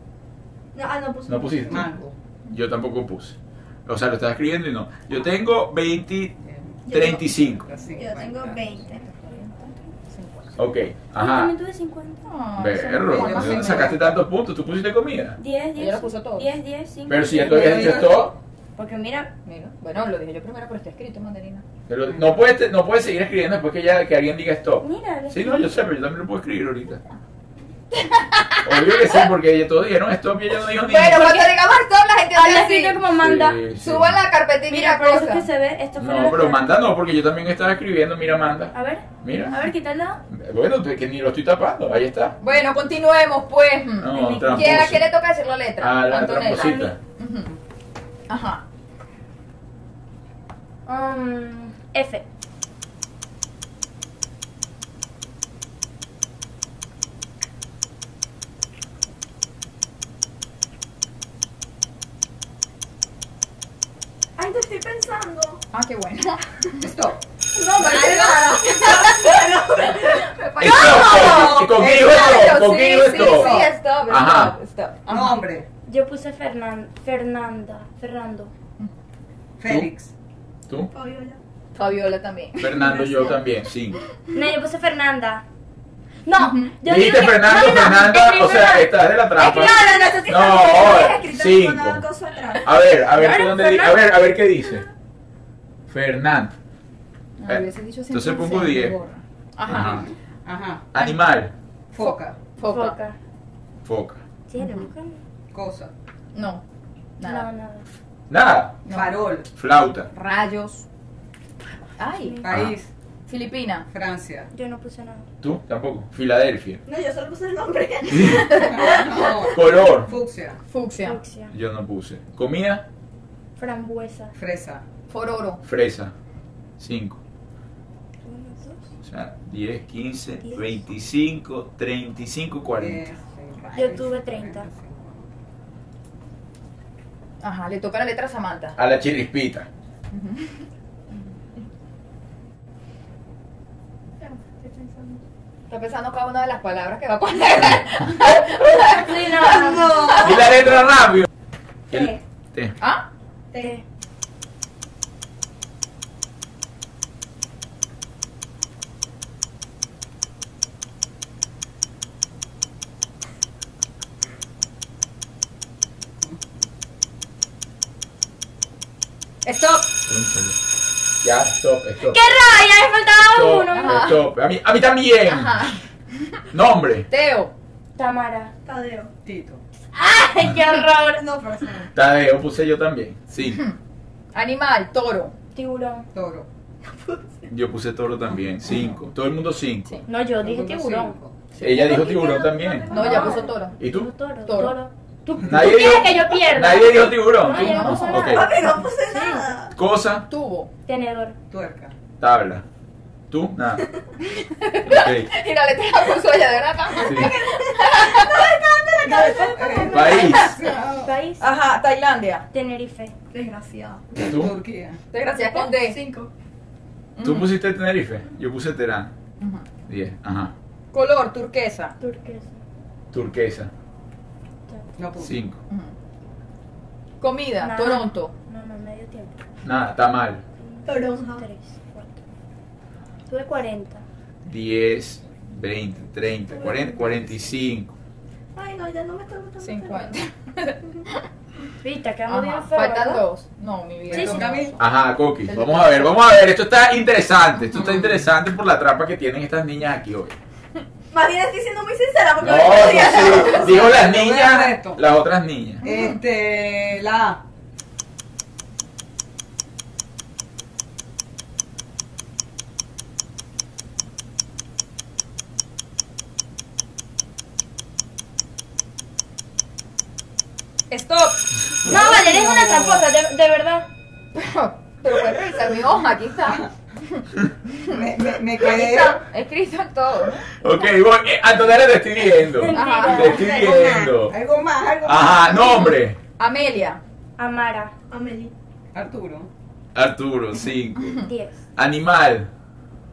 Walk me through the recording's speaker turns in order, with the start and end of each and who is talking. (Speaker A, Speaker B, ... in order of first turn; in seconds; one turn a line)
Speaker A: 0.7-1.9
Speaker B: 1.3-1.9
Speaker C: 1.7-2.1
Speaker B: 2.5-6.3
Speaker C: 6.4-6.8
Speaker A: 6.9-7.3
Speaker B: 6.9-7.7
Speaker C: 7.6-8.7
Speaker A: 7.9-9.1
Speaker D: 8.9-10.6
Speaker B: 10.6-11.5
Speaker E: 11.2-13.3
Speaker D: 12.3-14.0
Speaker B: 12.6-15.4
Speaker C: 13.1-14.1
Speaker E: 15.4-18.1
Speaker D: 15.8-16.5
Speaker B: 17.1-18.4
Speaker C: 17.4-18.3
Speaker E: 18.8-19.3
Speaker D: 19.4-21.6
Speaker B: 21.9-27.0
Speaker E: 24.8-25.7
Speaker D: 27.9-29.2
Speaker B: 28.6-31.3
Speaker D: 30.8-33.0
Speaker E: 31.1-31.5
Speaker E: 32.3-33.6
Speaker B: 33.1-34.2
Speaker D: 33.8-35.4
Speaker E: 34.7-36.7
Speaker B: 36.0-39.6
Speaker E: 38.7-40.2
Speaker B: 40.3-42.4
Speaker D: 42.4-47.5
Speaker B: 44.0-45.1
Speaker E: 44.1-45.0
Speaker B: 45.8-47.0
Speaker E: 46.6-46.8
Speaker D: 48.3-48.6
Speaker E: 50.9-52.2
Speaker A: 64.4-65.6
Speaker D: 65.7-66.9
Speaker C: 66.8-67.2
Speaker A: 67.5-71.3
Speaker D: 67.8-69.3
Speaker D: 70.3-75.4
Speaker B: 70.6-74.5
Speaker C: 70.8-72.2
Speaker C: 73.0-73.7
Speaker C: 75.1-75.7
Speaker E: 75.8-78.5
Speaker C: 79.6-80.1
Speaker A: 80.9-81.4
Speaker D: 81.7-83.4
Speaker B: 82.6-84.0
Speaker E: 84.3-85.4
Speaker E: 86.2-90.3
Speaker D: 86.4-86.7
Speaker B: 86.8-92.0
Speaker A: 89.4-92.7
Speaker B: 92.6-94.8
Speaker E: 93.1-94.2
Speaker B: 95.9-96.5
Speaker D: 97.4-100.0
Speaker B: 97.5-99.0
Speaker B: 99.7-100.1
Speaker C: 99.7-100.9
Speaker B: 100.9-101.5
Speaker C: 101.9-102.4
Speaker D: 102.0-103.0
Speaker E: 102.6-103.2
Speaker B: 103.8-104.2
Speaker E: 104.5-105.2
Speaker D: 104.6-104.9
Speaker C: 105.5-105.9
Speaker D: 106.3-106.6
Speaker D: 107.2-107.5
Speaker E: 107.2-107.8
Speaker B: 108.3-108.8
Speaker D: 108.9-109.2
Speaker C: 108.9-109.5
Speaker B: 109.5-110.1
Speaker D: 110.1-110.8
Speaker D: 112.0-112.5
Speaker C: 112.4-112.9
Speaker B: 112.5-112.7
Speaker D: 113.3-113.9
Speaker C: 113.9-114.5
Speaker E: 114.5-115.3
Speaker B: 115.4-116.8
Speaker A: 116.8-119.2
Speaker B: 118.1-118.5
Speaker D: 118.6-119.0
Speaker C: 118.6-120.6
Speaker B: 119.5-120.1
Speaker D: 120.7-121.2
Speaker E: 121.0-121.5
Speaker B: 121.5-122.8
Speaker E: 123.6-124.3
Speaker C: 124.3-124.8
Speaker D: 125.1-125.6
Speaker B: 125.6-126.1
Speaker B: 126.8-127.2
Speaker E: 128.2-128.8
Speaker B: 129.0-133.0
Speaker C: 132.8-135.3
Speaker E: 133.7-134.7
Speaker D: 137.4-138.8
Speaker B: 138.8-139.7
Speaker D: 140.1-140.5
Speaker A: 144.2-145.2
Speaker D: 145.7-149.5
Speaker E: 148.7-150.2
Speaker A: 149.4-150.6
Speaker B: 150.2-151.3
Speaker A: 151.9-152.2
Speaker B: 151.9-152.8
Speaker E: 153.6-153.8
Speaker D: 169.4-169.9
Speaker B: 170.1-170.6
Speaker B: 171.2-172.2
Speaker E: 172.0-174.0
Speaker B: 173.2-175.6
Speaker D: 173.7-174.2
Speaker D: 175.3-175.8
Speaker B: 176.5-177.1
Speaker D: 177.1-177.5
Speaker E: 177.9-178.5
Speaker A: 178.6-179.1
Speaker C: 179.2-179.6
Speaker E: 179.9-181.2
Speaker A: 180.6-181.9
Speaker B: 181.9-183.6
Speaker D: 183.4-183.8
Speaker D: 184.3-185.3
Speaker E: 185.5-186.1
Speaker C: 186.1-186.5
Speaker A: 186.8-187.5
Speaker B: 187.5-189.9
Speaker E: 190.1-191.2
Speaker C: 190.4-191.4
Speaker D: 191.6-191.9
Speaker B: 191.6-194.1
Speaker E: 191.7-199.5
Speaker D: 192.9-193.8
Speaker D: 194.4-194.8
Speaker B: 195.4-198.5
Speaker D: 197.6-198.0
Speaker A: 197.6-199.7
Speaker B: 199.8-200.3
Speaker D: 200.3-200.7
Speaker E: 200.8-201.3
Speaker C: 201.5-201.9
Speaker B: 202.2-202.6
Speaker B: 203.3-203.9
Speaker D: 204.2-208.4
Speaker B: 204.9-205.3
Speaker A: 206.9-210.3
Speaker B: 207.0-207.3
Speaker E: 209.0-211.4
Speaker C: 209.5-211.1
Speaker B: 209.9-210.5
Speaker D: 211.4-212.4
Speaker E: 212.5-213.1
Speaker A: 213.3-214.0
Speaker B: 214.2-214.5
Speaker C: 214.3-215.0
Speaker D: 215.1-216.0
Speaker A: 215.4-216.3
Speaker D: 217.2-217.5
Speaker B: 217.2-219.1
Speaker D: 219.4-219.7
Speaker B: 219.9-220.5
Speaker D: 220.9-221.9
Speaker E: 222.0-222.6
Speaker B: 223.1-223.7
Speaker C: 225.0-225.3
Speaker B: 225.2-225.6
Speaker D: 225.7-225.9
Speaker D: 227.2-228.3
Speaker E: 227.6-229.4
Speaker B: 229.6-230.4
Speaker E: 230.6-232.2
Speaker A: 230.8-231.4
Speaker E: 233.3-234.0
Speaker B: 234.4-237.9
Speaker A: 236.5-237.4
Speaker A: 238.5-240.2
Speaker D: 239.6-240.8
Speaker E: 241.8-243.2
Speaker D: 242.3-244.8
Speaker C: 244.1-244.8
Speaker E: 244.1-244.7
Speaker B: 244.8-250.3
Speaker D: 245.5-246.1
Speaker C: 247.7-248.2
Speaker A: 251.1-253.9
Speaker B: 252.4-255.8
Speaker C: 253.4-255.0
Speaker D: 255.8-256.2
Speaker C: 255.8-257.4
Speaker D: 270.9-273.0
Speaker E: 271.9-273.9
Speaker D: 274.3-278.0
Speaker C: 277.9-279.2
Speaker D: 278.6-280.4
Speaker B: 280.6-284.3
Speaker E: 282.6-283.5
Speaker D: 282.7-283.4
Speaker A: 283.2-284.1
Speaker C: 284.3-285.8
Speaker B: 285.0-286.2
Speaker D: 286.4-287.0
Speaker E: 287.4-287.9
Speaker A: 288.1-288.5
Speaker C: 288.9-289.5
Speaker B: 289.9-291.2
Speaker E: 291.2-291.6
Speaker B: 291.8-292.5